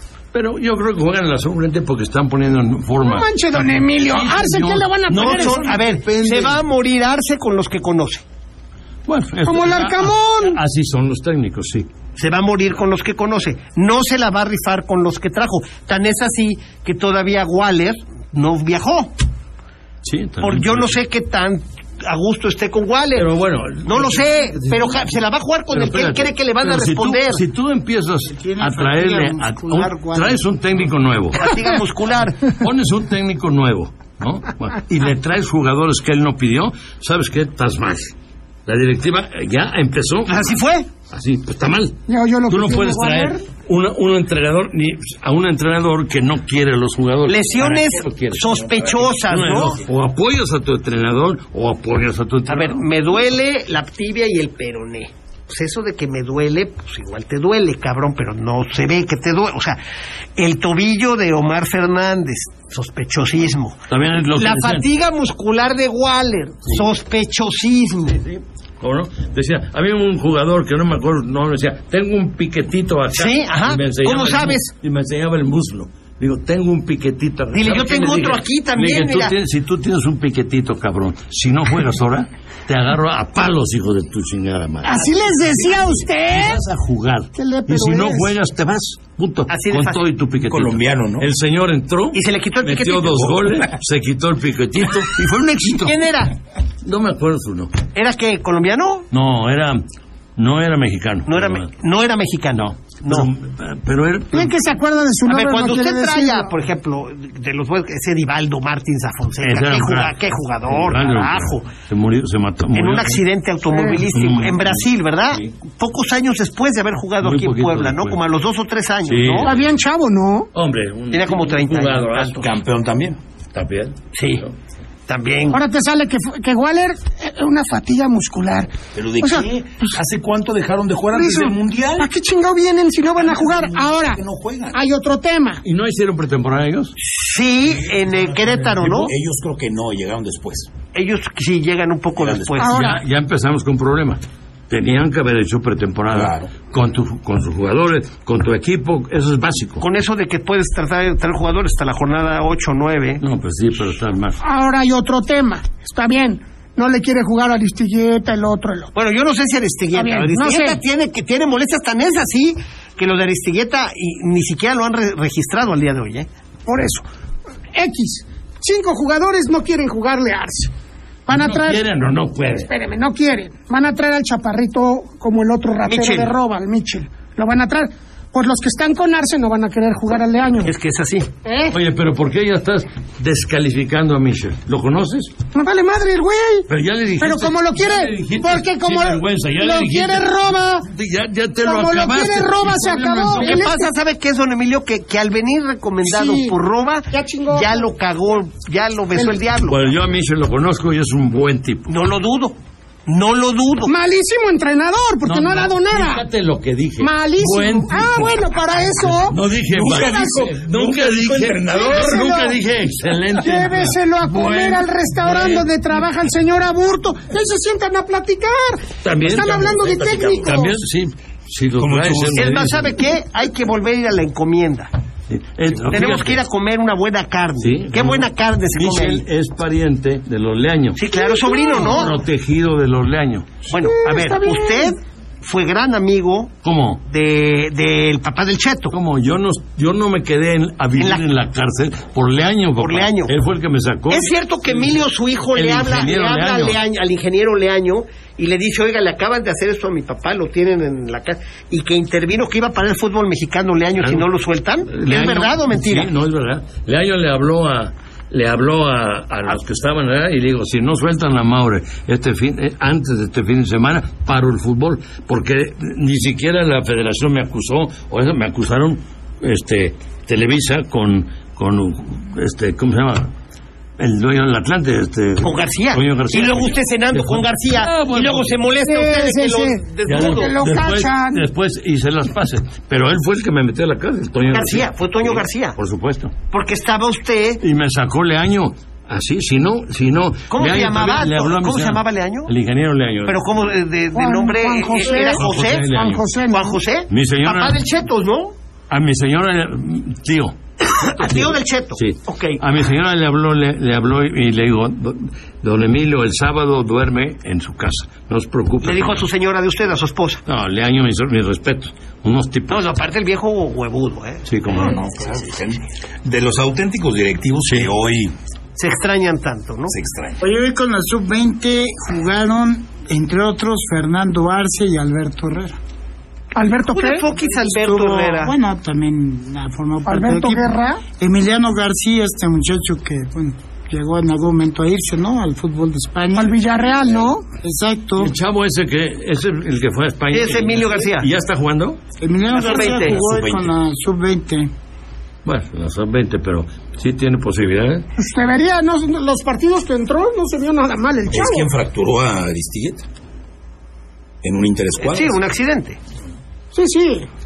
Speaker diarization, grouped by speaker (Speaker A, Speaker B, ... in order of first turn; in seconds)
Speaker A: 0.3-5.7, 9.1-11.9, 20.0-21.0, 23.1-25.1, 25.7-31.5, 32.5-38.1, 38.7-40.5, 41.1-52.9, 63.9-64.8, 68.1-85.2, 86.3-96.0, 96.8-97.7, 99.1-99.8, 100.4-101.7, 102.5-104.6, 109.4-110.2, 110.7-113.2, 114.1-115.5, 117.2-118.2, 119.1-119.7, 120.5-122.5, 123.5-124.5, 135.6-136.9, 142.6-149.8, 153.2-154.4, 171.3-172.7, 181.7-185.3, 186.7-193.6, 199.7-201.9, 205.2-208.4, 209.0-215.7, 219.0-223.0, 225.3-226.4, 227.6-231.0, 231.8-233.6, 236.6-237.0, 238.9-244.9, 245.5-246.8, 254.0-254.3, 254.9-273.3, 274.0-278.6, 280.1-286.3, 287.6-293.4, 295.1-296.2, 297.1-297.8, 298.9-309.2, 310.5-312.9, 314.5-315.0, 338.2-342.0, 345.4-348.1
Speaker B: 3.0-6.0, 9.5-10.6, 42.1-43.4, 84.8-86.6, 87.4-88.3, 104.3-106.5, 113.7-114.0, 119.4-120.5, 125.5-129.9, 131.1-134.2, 134.7-135.6, 142.6-143.0, 154.4-158.9, 159.9-160.8, 166.7-167.1, 167.7-170.7, 171.3-171.8, 172.6-180.7, 181.4-181.8, 185.5-186.7, 187.2-190.9, 191.6-193.9, 196.0-196.6, 197.1-197.8, 203.9-206.2, 207.0-209.4, 209.9-210.5, 211.7-212.6, 213.4-220.8, 231.1-232.1, 233.8-234.9, 278.9-281.4, 294.1-296.8, 326.5-327.3, 330.1-331.0, 336.4-337.5, 348.2-351.7, 356.7-357.3
Speaker C: 5.1-8.2, 12.2-19.1, 20.4-23.3, 23.9-27.4, 31.4-32.4, 40.3-40.9, 47.3-49.8, 52.5-59.8, 60.4-63.8, 64.4-68.2, 73.1-74.7, 77.5-79.3, 89.5-90.0, 92.1-93.3, 95.8-96.3, 97.9-99.1, 101.3-103.3, 105.3-111.7, 112.7-119.5, 121.1-122.5, 124.2-124.4, 125.1-125.6, 137.0-139.1, 140.9-142.7, 149.8-153.2, 158.9-166.3, 175.9-176.3, 180.6-181.3, 193.4-199.8, 201.9-203.9, 222.4-224.9, 225.9-229.2, 231.0-232.2, 233.7-236.5, 237.1-238.9, 241.0-241.2, 242.8-243.3, 244.1-256.1, 275.4-280.6, 284.5-285.8, 286.5-287.6, 290.5-292.5, 293.3-295.9, 296.5-298.5, 300.9-302.6, 308.8-310.4, 312.7-314.4, 318.8-320.0, 326.9-328.5, 340.3-341.3, 342.5-343.2, 355.0-356.0
Speaker D: 28.3-30.4, 320.4-325.8, 327.6-336.6, 337.6-338.3, 342.2-344.7
Speaker E: 90.5-91.3, 93.1-93.6, 122.4-123.2, 128.9-132.1, 133.2-134.8, 137.6-140.7, 142.2-142.7, 146.1-146.5, 209.7-212.2, 219.8-220.5, 221.8-222.6, 314.7-318.3, 319.9-320.4, 342.6-343.7, 351.3-353.0, 354.4-355.4